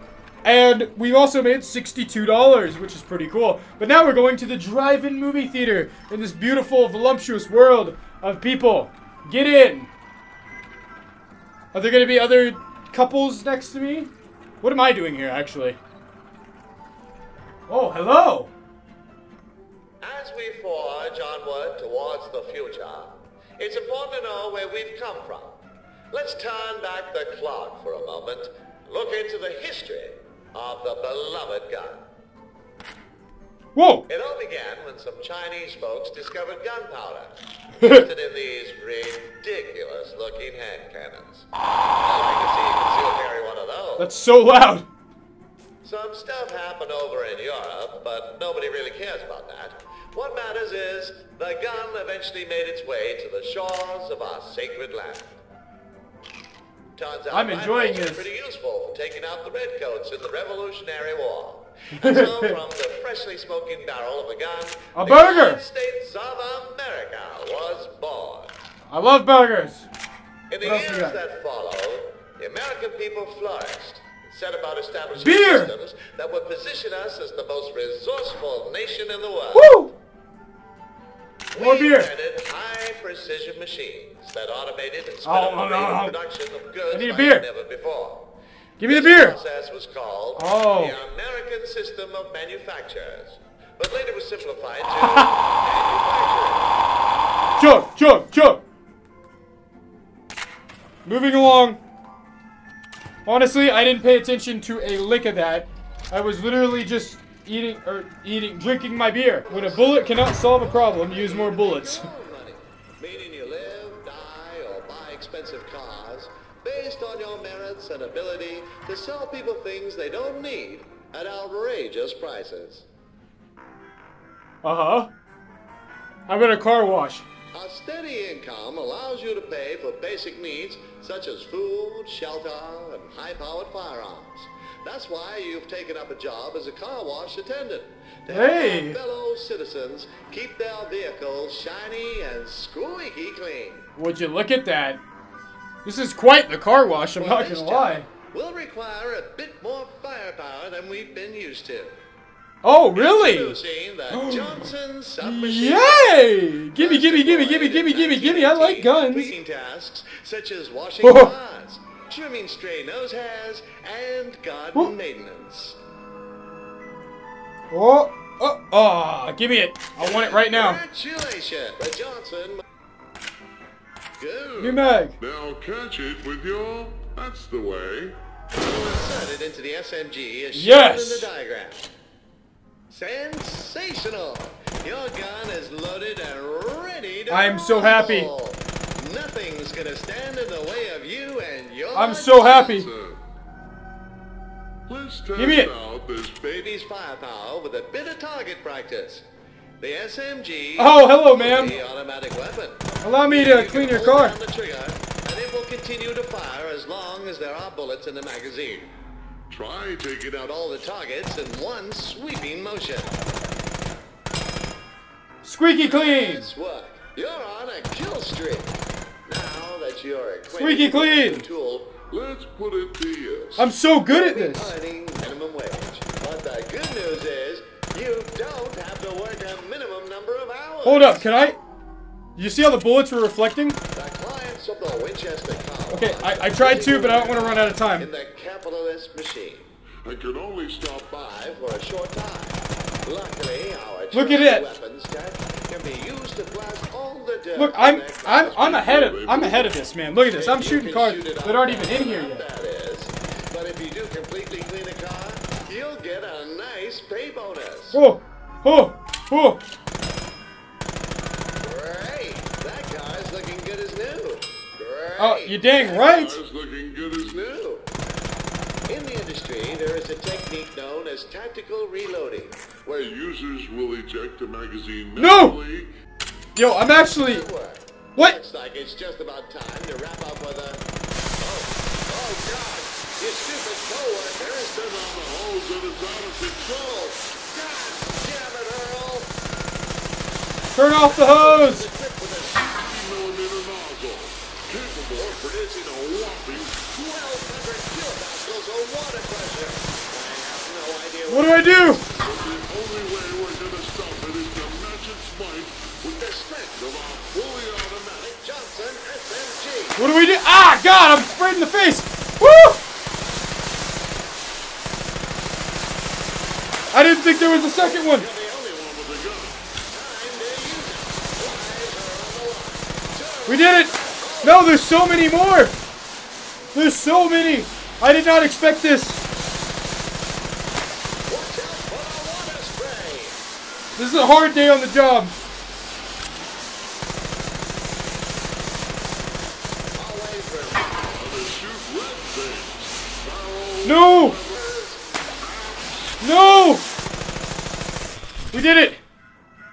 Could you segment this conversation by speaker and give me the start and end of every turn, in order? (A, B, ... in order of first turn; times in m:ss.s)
0:00.4-0:09.9 A
0:11.7-0:14.1 A
0:14.6-0:15.8 A
0:17.7-0:18.5 A
0:20.0-0:32.0 B
0:33.7-0:34.0 A
0:34.1-0:41.4 B
0:37.8-0:38.1 A
0:42.0-0:44.2 B
0:44.0-0:44.9 A
0:45.8-0:55.4 B
0:57.0-1:08.6 B
0:57.3-0:58.2 A
1:02.0-1:02.6 A
1:04.9-1:05.6 A
1:08.9-1:09.9 A
1:10.5-1:19.8 B
1:10.6-1:11.2 A
1:15.2-1:15.7 A
1:19.5-1:19.9 A
1:21.5-1:36.7 B
1:21.6-1:22.1 A
1:25.2-1:26.2 A
1:26.9-1:27.4 A
1:28.8-1:29.4 A
1:30.4-1:30.9 A
1:35.0-1:35.4 A
1:37.6-1:38.6 A
1:41.0-1:41.8 A
1:43.2-1:52.1 A
1:49.4-2:02.8 B
2:04.6-2:05.1 A
2:06.3-2:07.2 A
2:07.5-2:23.9 B
2:18.3-2:19.0 A
2:24.0-2:25.0 A
2:25.8-2:28.1 A
2:27.2-2:32.0 B
2:32.6-2:33.6 A
2:32.9-2:36.2 B
2:34.1-2:34.6 A
2:35.2-2:39.3 A
2:36.8-2:45.8 B
2:41.0-2:41.3 A
2:47.7-2:50.8 A
2:50.0-2:52.6 B
2:54.2-2:54.8 B
2:54.6-2:55.2 A
2:55.2-2:58.2 C
2:58.6-3:01.9 B
3:00.5-3:01.3 A
3:02.9-3:12.8 B
3:07.3-3:08.3 A
3:11.9-3:12.9 A
3:12.5-3:13.2 C
3:14.9-3:16.4 C
3:15.3-3:15.7 A
3:16.3-3:19.2 B
3:19.8-3:28.9 B
3:20.8-3:21.8 A
3:23.0-3:24.4 A
3:29.5-3:30.2 C
3:30.2-3:33.1 B
3:35.4-3:36.5 A
3:35.8-3:42.0 B
3:40.5-3:41.4 A
3:42.1-3:43.6 C
3:43.6-3:44.7 A
3:44.1-3:51.2 B
3:50.8-3:51.6 A
3:52.4-3:53.8 A
3:53.9-3:59.7 B
3:55.9-3:58.1 A
4:00.0-4:01.1 C
4:01.0-4:09.5 B
4:04.1-4:04.6 A
4:07.6-4:12.4 A
4:08.5-4:09.8 C
4:10.2-4:18.0 B
4:17.9-4:19.6 A
4:21.6-4:25.9 B
4:25.2-4:26.4 A
4:25.8-4:27.4 C
4:27.2-4:27.9 B
4:28.9-4:32.8 B
4:32.9-4:35.9 C
4:35.2-4:35.6 A
4:36.5-4:37.4 A
4:37.2-4:40.8 B
4:41.4-4:44.9 B
4:44.7-4:47.2 C
4:47.1-4:49.3 B
4:50.7-4:51.9 A
4:51.0-4:52.7 B
4:52.7-4:56.8 C
4:56.7-5:02.3 B
5:01.3-5:02.0 A
5:02.2-5:08.4 C
5:08.3-5:10.0 B
5:10.0-5:12.8 A
5:16.9-5:18.3 A
5:17.2-5:18.8 B
5:18.7-5:19.6 C
5:19.9-5:24.7 B
5:23.4-5:25.7 A
5:26.7-5:29.2 A
5:31.3-5:33.4 B
5:34.0-5:35.3 A
5:40.0-5:41.1 B
5:41.1-5:44.8 C
5:43.8-5:44.4 A
5:44.5-5:44.8 B
5:45.4-5:46.8 C
5:46.2-5:46.8 A
5:48.5-5:49.0 A